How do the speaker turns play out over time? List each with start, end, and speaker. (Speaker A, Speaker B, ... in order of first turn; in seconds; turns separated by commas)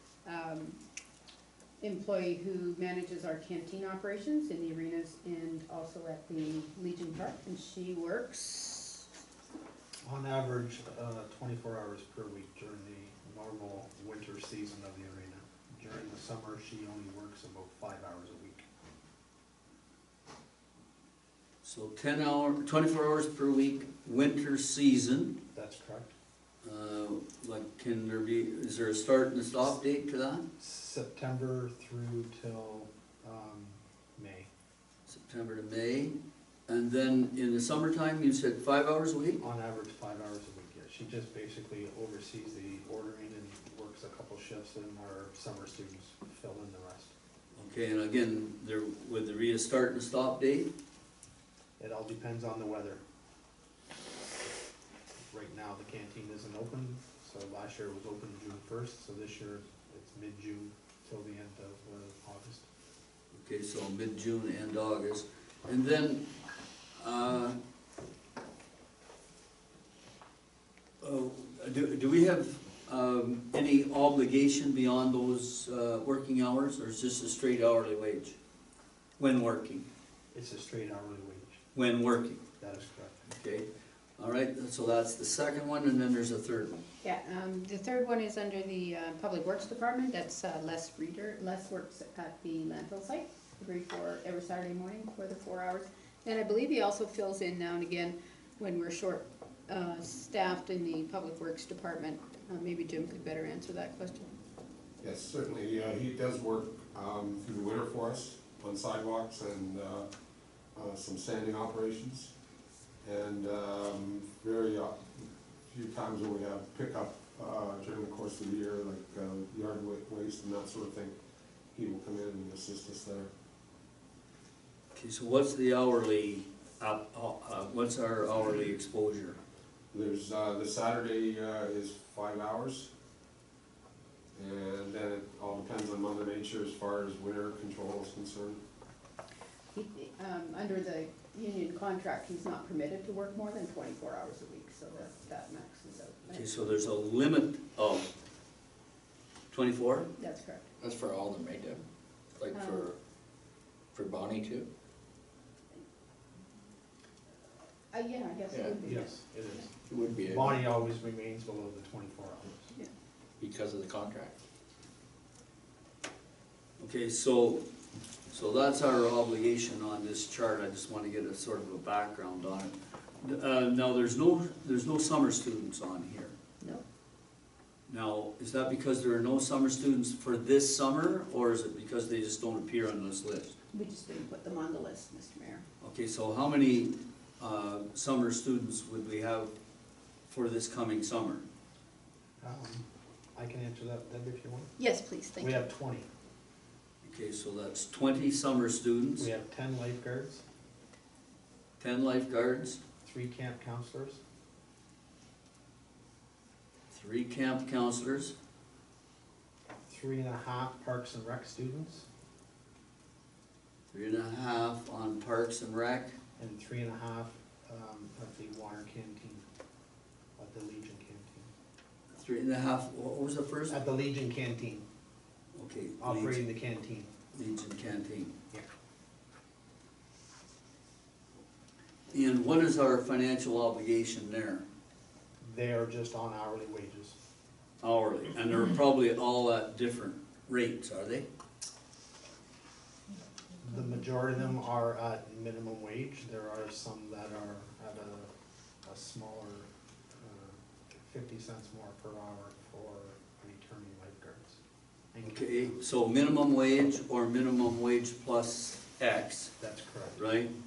Speaker A: 0.2-0.8, Speaker A: 1.8-9.1, Speaker B: 10.0-18.7, Speaker C: 21.6-25.4, Speaker B: 25.5-26.1, Speaker C: 26.6-30.4, Speaker B: 30.6-34.5, Speaker C: 35.1-36.2, Speaker C: 36.7-39.4, Speaker B: 39.4-47.1, Speaker C: 47.5-50.7, Speaker B: 51.8-53.0, Speaker B: 55.3-62.7, Speaker C: 63.3-66.3, Speaker C: 67.0-67.6, Speaker C: 71.0-78.4, Speaker C: 79.2-79.9, Speaker B: 80.3-81.6, Speaker C: 81.7-82.4, Speaker B: 82.6-83.3, Speaker C: 83.3-86.8, Speaker A: 87.0-104.3, Speaker D: 105.0-110.1, Speaker D: 110.8-112.3, Speaker D: 113.0-121.2, Speaker D: 121.7-123.3, Speaker C: 124.9-129.4, Speaker D: 129.9-132.9, Speaker D: 134.3-138.6, Speaker A: 139.7-146.7, Speaker C: 146.3-148.1, Speaker C: 149.5-150.1, Speaker A: 150.2-150.7, Speaker E: 150.8-151.8, Speaker E: 152.4-153.0, Speaker A: 152.5-152.9, Speaker E: 153.9-154.7, Speaker A: 157.9-159.2, Speaker E: 158.5-158.8, Speaker B: 158.8-159.7, Speaker E: 159.9-160.7, Speaker B: 160.3-162.7, Speaker E: 163.4-164.4, Speaker C: 166.8-167.6, Speaker C: 168.3-176.3, Speaker C: 177.9-183.6, Speaker A: 183.7-185.6, Speaker C: 185.8-189.5, Speaker C: 190.3-191.4, Speaker B: 192.4-194.7, Speaker A: 194.8-195.6, Speaker B: 195.4-196.1, Speaker C: 197.0-199.3, Speaker B: 199.2-200.4, Speaker C: 201.8-202.8, Speaker B: 203.0-204.2, Speaker C: 206.9-208.3, Speaker B: 209.9-212.1, Speaker C: 213.9-216.2, Speaker B: 216.4-219.4, Speaker B: 220.4-221.5, Speaker C: 222.1-223.8, Speaker B: 223.7-224.8, Speaker C: 225.6-226.4, Speaker B: 226.0-227.1, Speaker C: 227.3-228.3, Speaker C: 232.1-234.7, Speaker B: 235.4-237.2, Speaker C: 237.8-241.3, Speaker B: 243.6-248.3, Speaker B: 248.8-254.6, Speaker B: 255.1-255.8, Speaker C: 255.2-259.5, Speaker B: 259.6-260.2, Speaker C: 260.1-260.5